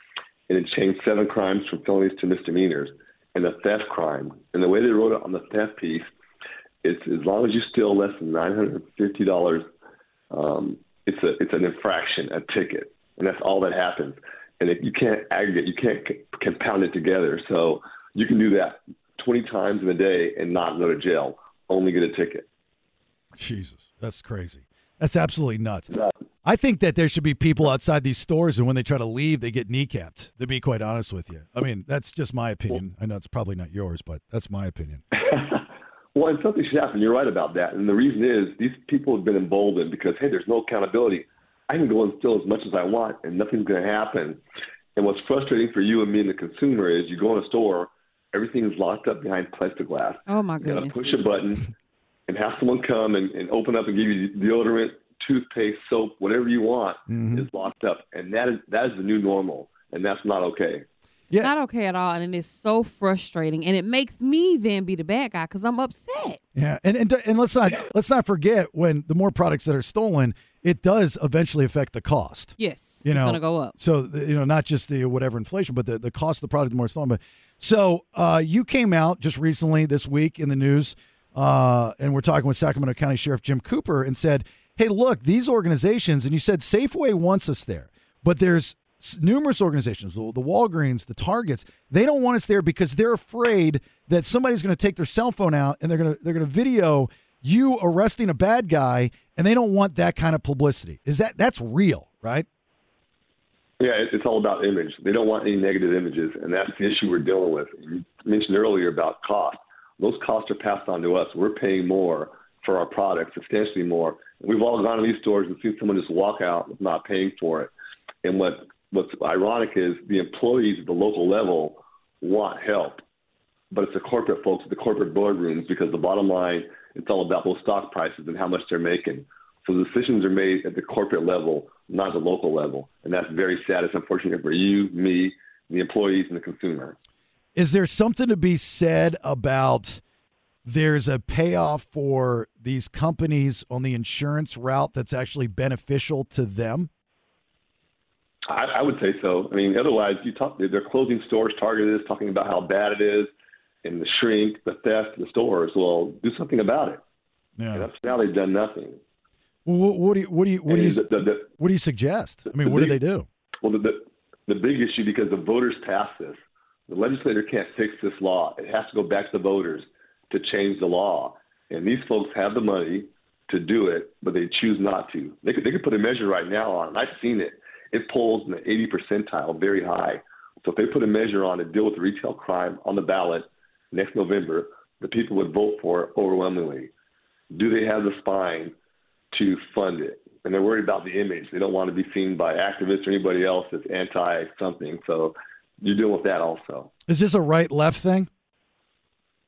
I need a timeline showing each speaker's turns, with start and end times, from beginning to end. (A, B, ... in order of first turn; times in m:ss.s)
0:00.5-0:06.1 A
0:06.8-0:09.6 A
0:10.3-0:22.4 A
0:23.4-0:25.9 B
0:26.4-0:35.0 B
0:35.1-0:35.6 A
0:36.1-0:44.4 A
0:45.0-0:51.6 A
0:50.3-0:51.1 C
0:52.3-1:00.8 A
0:57.1-0:57.4 B
1:01.4-1:06.4 C
1:06.5-1:42.5 B
1:12.6-1:13.7 C
1:43.8-1:57.7 A
1:58.2-2:03.0 A
2:03.7-2:17.0 A
2:17.5-2:20.0 B
2:20.6-2:26.9 B
2:28.5-2:33.3 A
2:33.8-2:37.0 A
2:37.6-2:37.9 B
2:37.7-2:39.0 A
2:39.6-2:43.3 B
2:40.7-2:41.5 A
2:42.5-2:43.0 A
2:43.6-3:06.9 A
3:07.5-3:08.7 A
3:09.3-3:16.9 A
3:17.1-3:18.3 B